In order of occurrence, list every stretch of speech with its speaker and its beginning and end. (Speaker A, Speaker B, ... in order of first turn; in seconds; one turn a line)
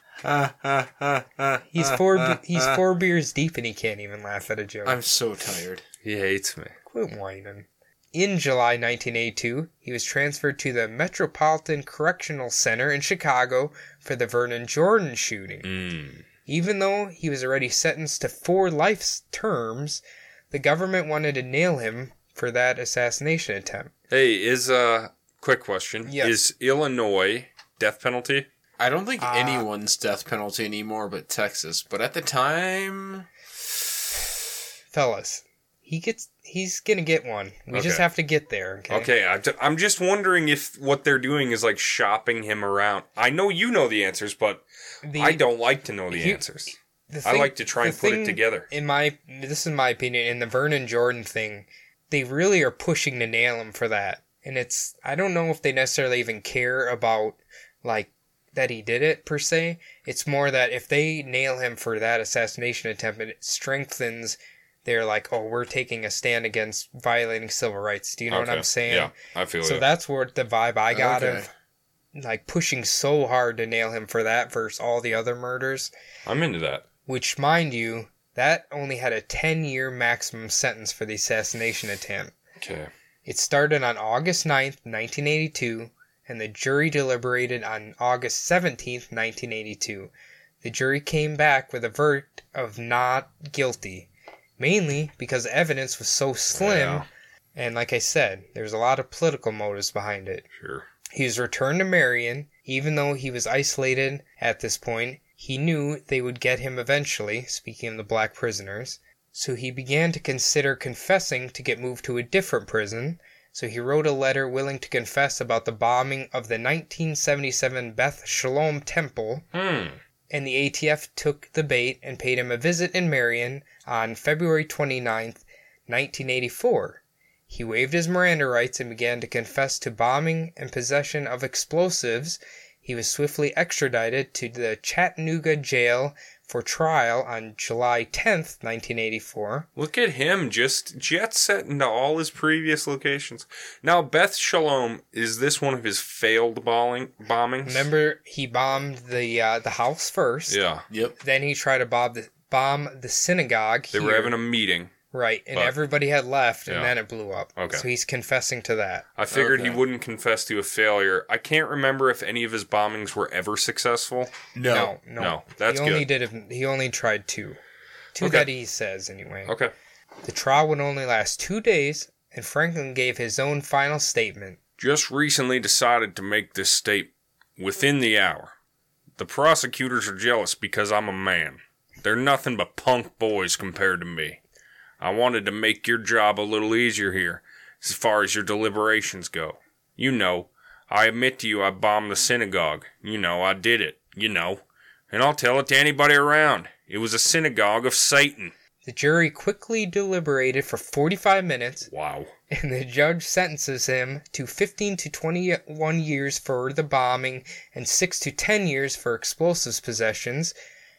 Speaker A: 0.2-2.8
Speaker B: 1.7-5.0
Speaker A: 4.8-5.8
Speaker C: 6.0-6.7
Speaker B: 6.9-15.6
Speaker C: 15.6-16.2
Speaker B: 16.5-23.9
Speaker C: 24.1-28.5
Speaker B: 26.1-26.4
Speaker A: 28.8-33.3
Speaker B: 29.2-29.7
Speaker B: 34.9-39.1
Speaker C: 37.7-38.0
Speaker C: 38.9-44.6
Speaker B: 45.0-45.4
Speaker C: 45.1-46.7
Speaker B: 46.1-46.4
Speaker B: 47.1-69.1
Speaker C: 47.2-48.7
Speaker C: 68.3-69.8
Speaker B: 69.6-71.5
Speaker A: 70.9-71.5
Speaker B: 72.1-75.9
Speaker C: 76.2-76.8
Speaker B: 77.0-82.3
Speaker C: 82.6-82.9
Speaker B: 83.2-90.1
Speaker B: 90.6-97.0
Speaker C: 96.5-97.0
Speaker B: 97.5-100.4
Speaker C: 100.6-100.8
Speaker B: 101.1-119.4
Speaker C: 119.5-120.0
Speaker B: 120.3-139.7
Speaker C: 139.8-147.9
Speaker B: 147.6-150.6
Speaker C: 150.5-150.8
Speaker A: 150.9-151.2
Speaker B: 151.2-154.3
Speaker C: 153.9-154.9
Speaker B: 155.1-159.1
Speaker C: 156.7-156.9
Speaker C: 157.6-157.8
Speaker C: 159.2-164.3
Speaker A: 159.3-159.8
Speaker A: 164.5-164.9
Speaker B: 164.7-167.6
Speaker C: 165.2-166.1
Speaker B: 168.2-169.5
Speaker C: 168.2-168.5
Speaker C: 169.4-169.7
Speaker B: 170.2-174.6
Speaker C: 174.8-178.5
Speaker C: 179.2-184.4
Speaker C: 185.0-198.5
Speaker B: 198.8-201.9
Speaker C: 201.9-202.3
Speaker B: 202.5-210.5